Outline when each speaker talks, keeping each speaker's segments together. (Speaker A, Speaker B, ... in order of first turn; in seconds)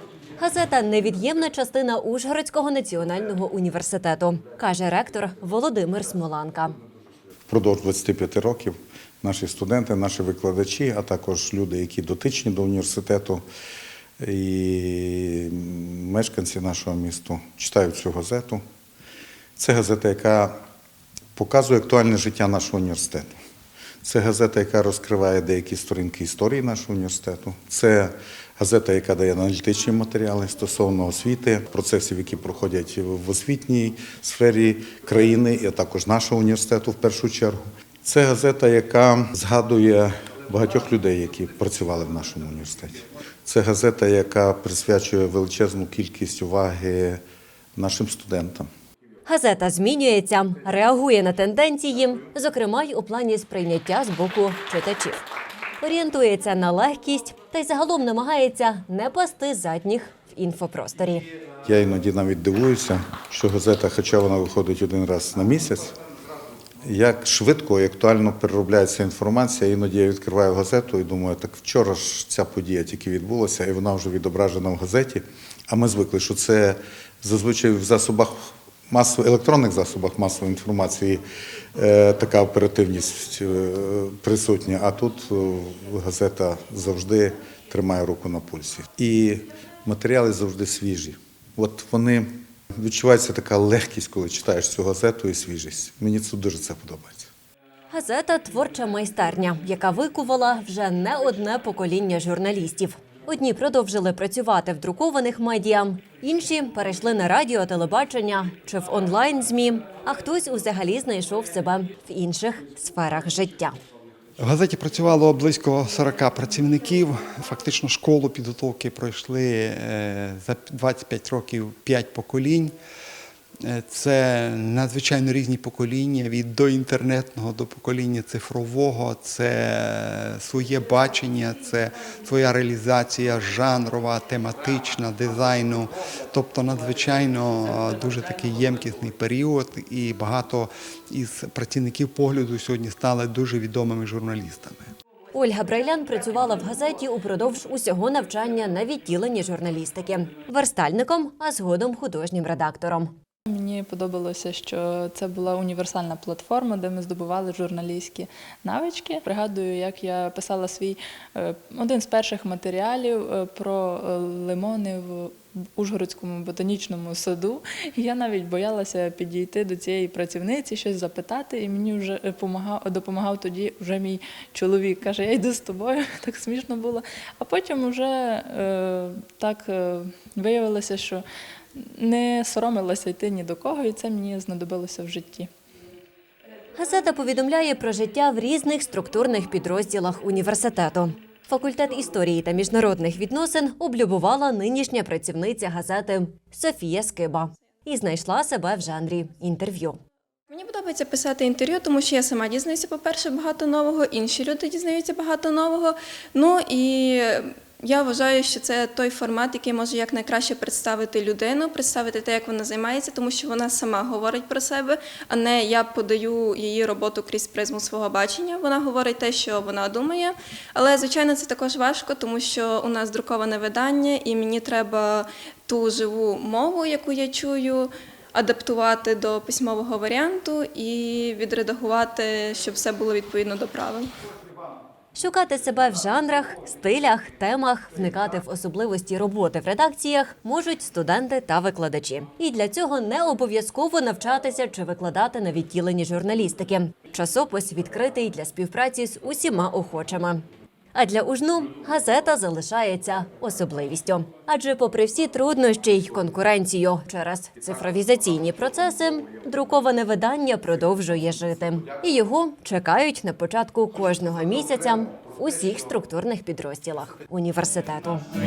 Speaker A: 0.4-6.8, 49.3-55.2, 55.8-61.3, 97.9-113.8, 145.3-153.1, 186.8-200.0, 235.2-268.3
Speaker B: 7.5-13.4, 14.2-18.6, 19.6-20.6, 21.4-23.3, 24.0-47.2, 47.8-48.7, 61.6-65.9, 66.8-81.2, 81.8-97.3
Speaker C: 114.4-122.7, 123.6-144.9
Speaker D: 153.5-185.5
Speaker E: 200.5-234.1